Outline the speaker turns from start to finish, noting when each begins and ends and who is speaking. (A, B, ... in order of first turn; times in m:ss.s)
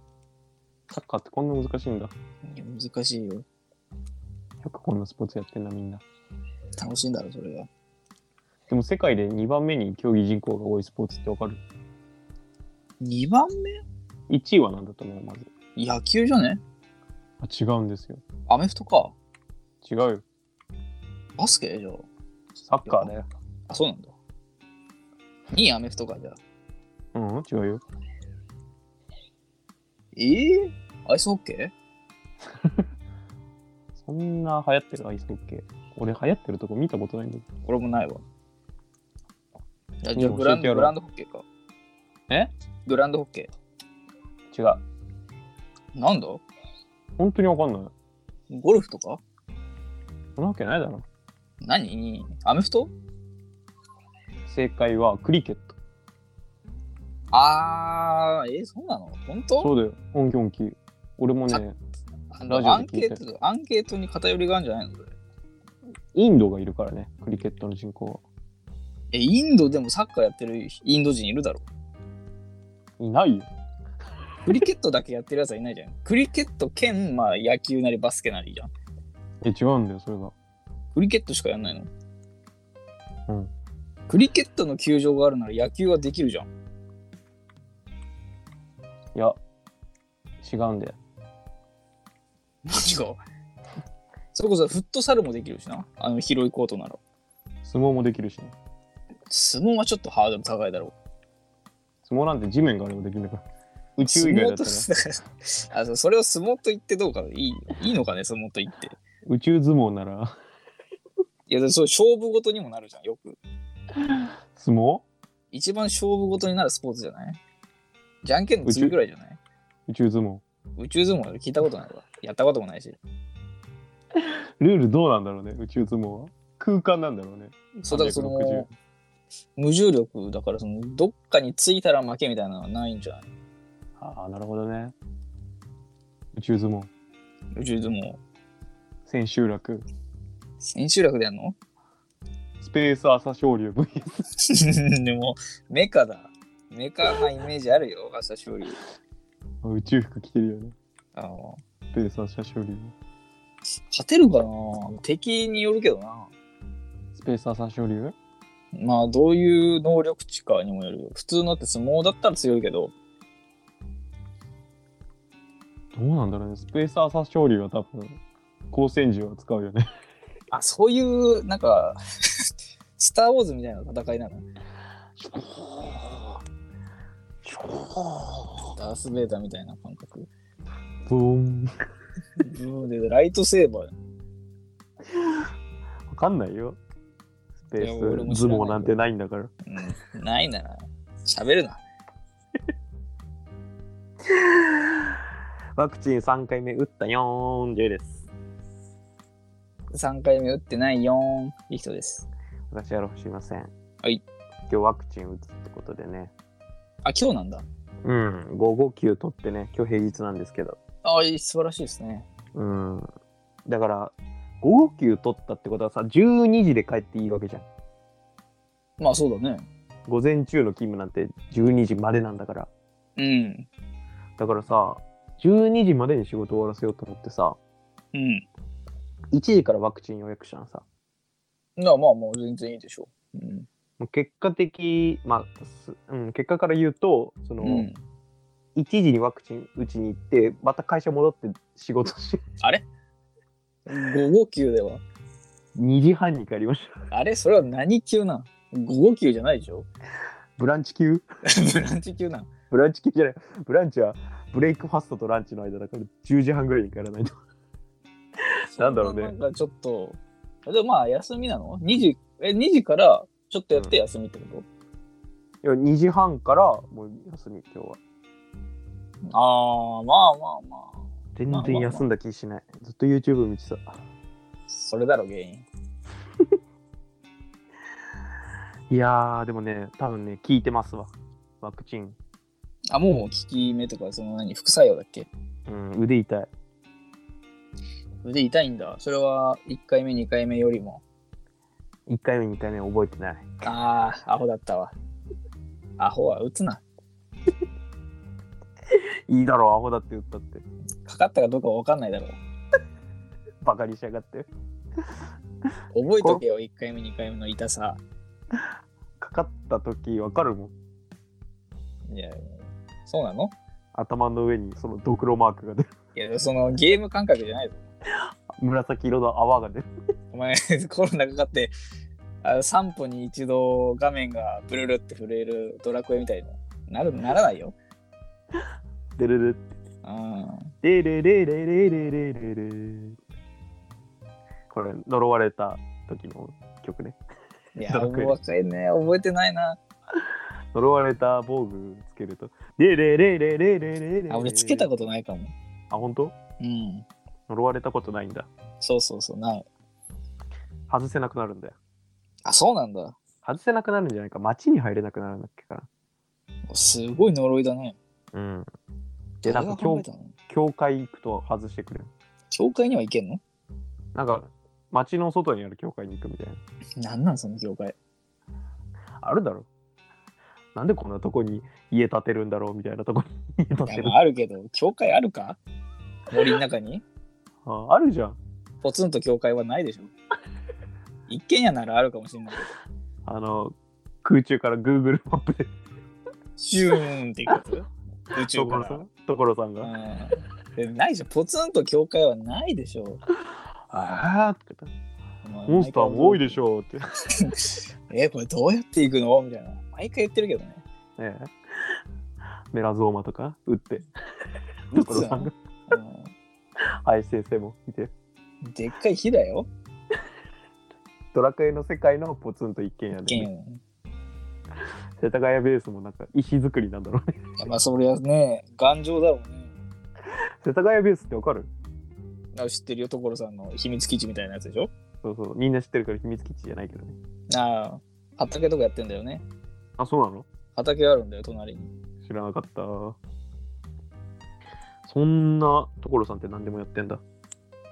0:00.9-0:02.1 A
0:02.4-0:03.4 B
0:04.6-0:06.0 A
0:06.8-0:07.7 B
0:08.7-0:11.6 A
0:13.0-0:13.8 B
0:14.3-0:15.5 A
0:15.8-0:16.6 B
0:17.4-0:18.2 A
0:18.5-0:19.2 B
0:19.8-0:20.2 A
0:21.4-0:22.1 B
0:22.7-0:23.3 A
0:22.8-0:23.1 B
0:23.7-0:24.1 B
0:25.5-0:26.4 B
0:27.1-0:27.8 A
0:30.2-0:31.7 B
0:34.0-0:37.5 A
0:37.7-0:38.2 B
0:40.0-0:41.5 B
0:40.2-0:41.0 A
0:42.9-0:43.5 B
0:44.5-0:44.8 A
0:46.0-0:46.4 B
0:47.2-0:47.9 A
0:48.5-0:49.2 B
0:50.4-0:51.0 A
0:51.6-0:52.9 B
0:54.5-0:55.8 A
0:57.3-0:59.7 B
0:59.6-1:01.8 A
1:02.3-1:05.1 B
1:02.5-1:03.2 A
1:06.1-1:08.2 A
1:09.1-1:11.7 B
1:13.0-1:13.5 A
1:14.4-1:18.7 B
1:19.4-1:20.3 A
1:20.9-1:21.9 B
1:23.3-1:23.5 A
1:24.1-1:26.5 B
1:30.4-1:31.0 A
1:32.6-1:33.2 B
1:34.3-1:37.0 B
1:37.6-1:38.5 A
1:39.3-1:41.0 B
1:42.0-1:43.4 A
1:44.0-1:44.9 A
1:44.0-1:49.0 B
1:49.2-1:50.3 A
1:51.5-1:53.4 B
1:54.1-1:55.0 A
1:55.5-1:57.4 B
1:58.2-1:59.4 B
1:58.6-1:59.0 A
1:59.9-2:00.4 A
2:00.8-2:03.0 B
2:04.2-2:08.7 A
2:07.8-2:08.7 B
2:09.6-2:13.3 B
2:14.0-2:15.0 A
2:16.3-2:16.9 A
2:17.5-2:18.2 B
2:19.1-2:19.8 A
2:20.6-2:21.6 B
2:22.6-2:24.2 A
2:24.4-2:28.8 B
2:29.6-2:30.7 A
2:31.2-2:31.6 B
2:31.9-2:33.0 A
2:33.9-2:36.3 B
2:37.2-2:38.2 A
2:38.7-2:42.9 B
2:45.9-2:48.2 A
2:48.7-2:49.9 A
2:50.5-2:52.4 B
2:53.0-2:54.4 B
2:55.2-2:56.4 A
2:57.4-2:58.8 A
2:58.8-3:00.3 B
3:01.1-3:01.8 A
3:02.4-3:04.0 B
3:05.1-3:05.5 A
3:06.1-3:06.8 A
3:07.7-3:09.5 A
3:07.8-3:09.0 B
3:09.7-3:11.8 B
3:14.3-3:15.2 A
3:15.8-3:18.2 A
3:19.9-3:22.3 B
3:22.7-3:23.7 A
3:24.7-3:26.3 A
3:27.0-3:27.7 B
3:28.0-3:30.8 A
3:31.0-3:32.3 B
3:32.5-3:33.1 A
3:33.7-3:37.7 A
3:39.0-3:39.7 B
3:40.1-3:42.7 A
3:43.2-3:43.7 B
3:44.4-3:47.6 A
3:48.1-3:48.4 B
3:49.3-3:50.8 A
3:51.8-3:53.7 B
3:54.0-3:57.9 A
3:57.6-3:58.0 B
3:58.8-4:02.4 A
4:03.9-4:05.0 B
4:05.8-4:06.9 A
4:07.1-4:09.9 B
4:10.6-4:11.2 A
4:11.4-4:12.5 B
4:12.7-4:17.3 A
4:18.6-4:19.4 A
4:18.8-4:24.7 B
4:25.6-4:28.0 A
4:29.3-4:32.0 B
4:31.4-4:34.0 A
4:34.7-4:35.7 B
4:38.9-4:42.2 A
4:42.9-4:45.3 B
4:45.7-4:46.5 A
4:48.2-4:51.0 B
4:52.1-4:53.5 A
4:53.6-4:55.0 B
4:56.0-4:56.8 B
4:58.9-5:00.6 A
5:01.0-5:02.4 B
5:03.6-5:04.5 A
5:05.9-5:08.0 B
5:09.2-5:10.7 A
5:12.1-5:13.6 B
5:13.9-5:15.9 A
5:16.2-5:17.9 B
5:18.5-5:19.9 A
5:20.3-5:21.7 B
5:22.4-5:27.8 B
5:29.2-5:29.7 A
5:30.0-5:30.8 B
5:30.8-5:33.2 A
5:34.7-5:37.2 A
5:37.8-5:39.8 B
5:37.9-5:38.4 A
5:40.7-5:44.9 A
5:44.3-5:45.5 B
5:45.9-5:46.4 A
5:46.6-5:47.1 B
5:47.5-5:48.5 A
5:48.8-5:49.7 B
5:50.9-5:51.8 A
5:52.4-5:53.2 B
5:53.4-5:55.9 A
5:56.7-5:58.0 B
5:58.3-5:58.7 A
5:59.4-6:00.3 B
5:59.4-6:02.1 A
6:02.5-6:03.4 B
6:04.1-6:06.6 A
6:07.0-6:08.0 B
6:09.2-6:09.7 A
6:10.8-6:14.2 A
6:13.9-6:15.6 B
6:16.3-6:17.0 B
6:17.6-6:18.4 A
6:18.8-6:20.1 B
6:21.3-6:22.7 B
6:23.2-6:25.7 A
6:26.6-6:29.0 B
6:28.4-6:29.9 A
6:29.8-6:33.2 B
6:33.9-6:34.9 A
6:35.4-6:36.6 B
6:35.7-6:37.0 A
6:37.3-6:40.8 B
6:41.2-6:42.0 A
6:42.7-6:44.1 A
6:44.9-6:45.5 A
6:44.9-6:46.3 B
6:47.0-6:48.1 A
6:48.6-6:49.7 B
6:51.3-6:53.5 A
6:53.3-6:53.8 B
6:55.2-6:57.4 A
6:57.6-6:59.7 B
7:00.6-7:01.7 A
7:02.5-7:04.9 B
7:05.2-7:07.2 A
7:07.5-7:09.4 B
7:10.0-7:10.5 A
7:10.8-7:11.9 B
7:12.2-7:13.2 A
7:15.0-7:17.2 A